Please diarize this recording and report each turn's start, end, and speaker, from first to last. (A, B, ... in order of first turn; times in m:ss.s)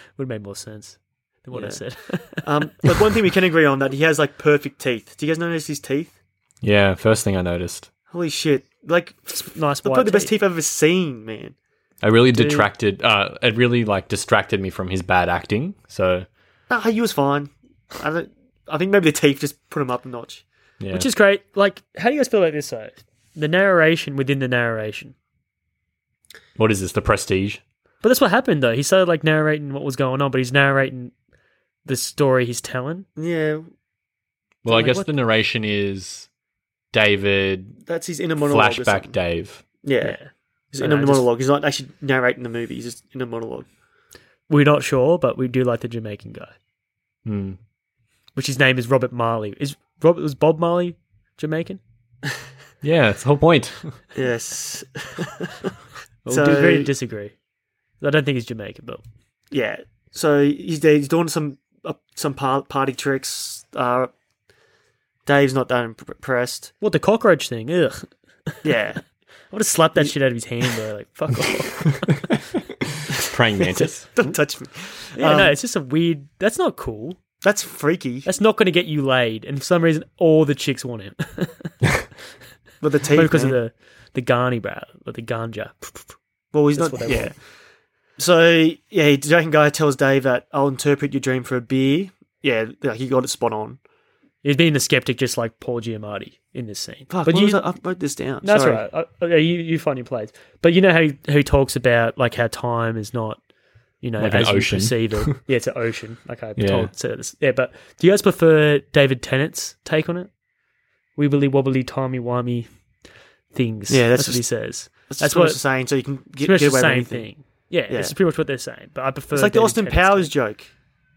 0:00.2-0:02.7 A
0:01.5-0:06.1 B
0:06.6-0:07.9 C
0:08.1-0:11.6 B
0:09.5-0:10.3 A
0:12.0-0:16.3 C
0:12.3-0:12.7 A
0:16.7-0:20.4 B
0:20.8-0:21.1 C
0:20.9-0:25.2 A
0:26.6-0:27.6 C
0:28.0-0:31.1 A
0:31.8-0:33.1 A
0:33.2-0:33.7 B
0:34.6-0:36.3 C
0:34.7-0:35.1 A
0:36.9-0:37.8 C
0:37.9-0:39.2 B
0:38.4-0:39.6 C
0:39.8-0:40.2 B
0:40.0-0:41.3 A
0:40.7-0:43.7 B
0:44.5-0:46.5 A
0:47.2-0:47.6 C
0:48.4-0:51.8 A
0:52.8-0:54.0 C
0:54.2-0:55.7 B
0:56.2-0:57.3 A
0:56.3-0:56.9 B
0:58.0-0:59.0 A
0:59.5-1:04.1 B
1:05.3-1:06.7 B
1:06.8-1:08.7 A
1:08.6-1:09.0 B
1:09.5-1:12.3 A
1:13.1-1:14.1 C
1:13.8-1:15.6 B
1:15.2-1:17.2 A
1:17.4-1:18.3 B
1:18.2-1:21.8 A
1:22.8-1:23.6 B
1:23.2-1:26.1 A
1:26.5-1:27.4 B
1:26.8-1:27.4 A
1:28.2-1:33.8 B
1:34.4-1:37.6 A
1:37.1-1:38.8 B
1:38.4-1:43.4 A
1:44.0-1:50.3 A
1:44.2-1:45.4 C
1:46.6-1:46.9 C
1:51.2-1:52.7 A
1:53.5-1:55.6 A
1:53.9-1:57.3 B
1:56.4-2:00.3 A
1:57.9-1:58.2 B
1:59.3-2:00.7 B